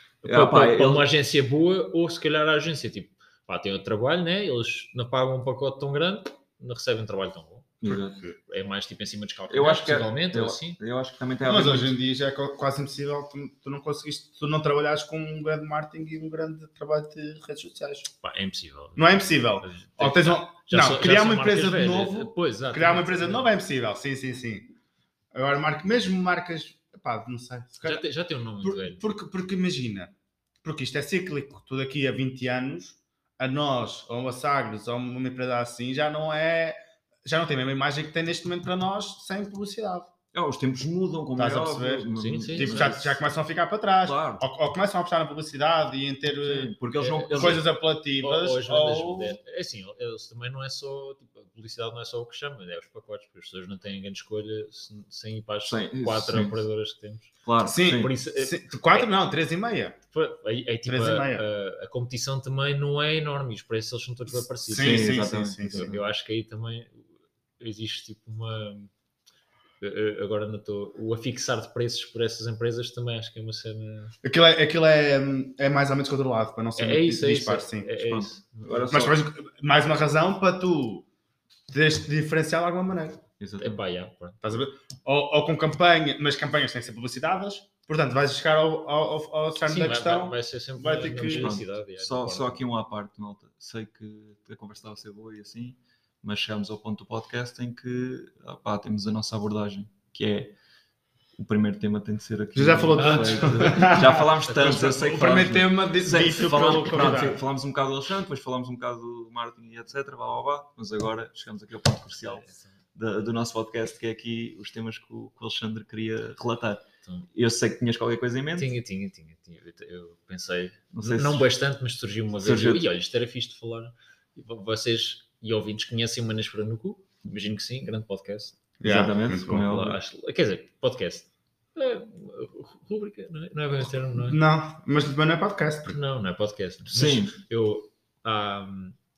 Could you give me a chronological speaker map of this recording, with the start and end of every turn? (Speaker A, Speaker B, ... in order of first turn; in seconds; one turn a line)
Speaker A: 0.2-7.8
Speaker B: 0.2-1.1
Speaker B: 7.8-8.2
Speaker A: 8.5-10.8
Speaker B: 9.5-12.0
Speaker C: 11.4-18.1
Speaker A: 18.2-23.5
Speaker C: 19.0-24.7
Speaker C: 25.3-28.0
Speaker A: 27.8-29.0
Speaker C: 28.6-30.1
Speaker C: 30.6-40.1
Speaker B: 40.3-43.2
Speaker C: 41.4-46.7
Speaker A: 42.2-42.9
Speaker B: 44.0-44.5
Speaker B: 46.5-47.7
Speaker A: 47.0-57.3
Speaker C: 47.3-49.4
Speaker B: 55.6-56.6
Speaker B: 57.4-58.1
Speaker C: 57.6-60.0
Speaker A: 57.9-59.1
Speaker A: 60.1-68.9
Speaker C: 60.9-61.4
Speaker C: 64.7-65.9
Speaker B: 64.7-66.0
Speaker A: 69.8-74.2
Speaker C: 74.2-77.9
Speaker A: 76.8-78.5
Speaker B: 78.0-79.2
Speaker C: 78.9-81.0
Speaker C: 81.7-83.2
Speaker B: 83.4-83.8
Speaker A: 83.6-84.4
Speaker C: 84.4-91.5
Speaker A: 89.7-92.6
Speaker B: 91.2-100.5
Speaker B: 101.3-118.7
Speaker C: 102.5-107.4
Speaker A: 103.0-105.2
Speaker A: 112.2-112.7
Speaker A: 118.5-128.6
Speaker B: 120.9-121.5
Speaker B: 122.4-122.9
Speaker C: 128.8-129.7
Speaker B: 128.8-130.0
Speaker A: 129.5-134.4
Speaker C: 134.3-135.9
Speaker A: 135.9-139.0
Speaker B: 136.9-137.4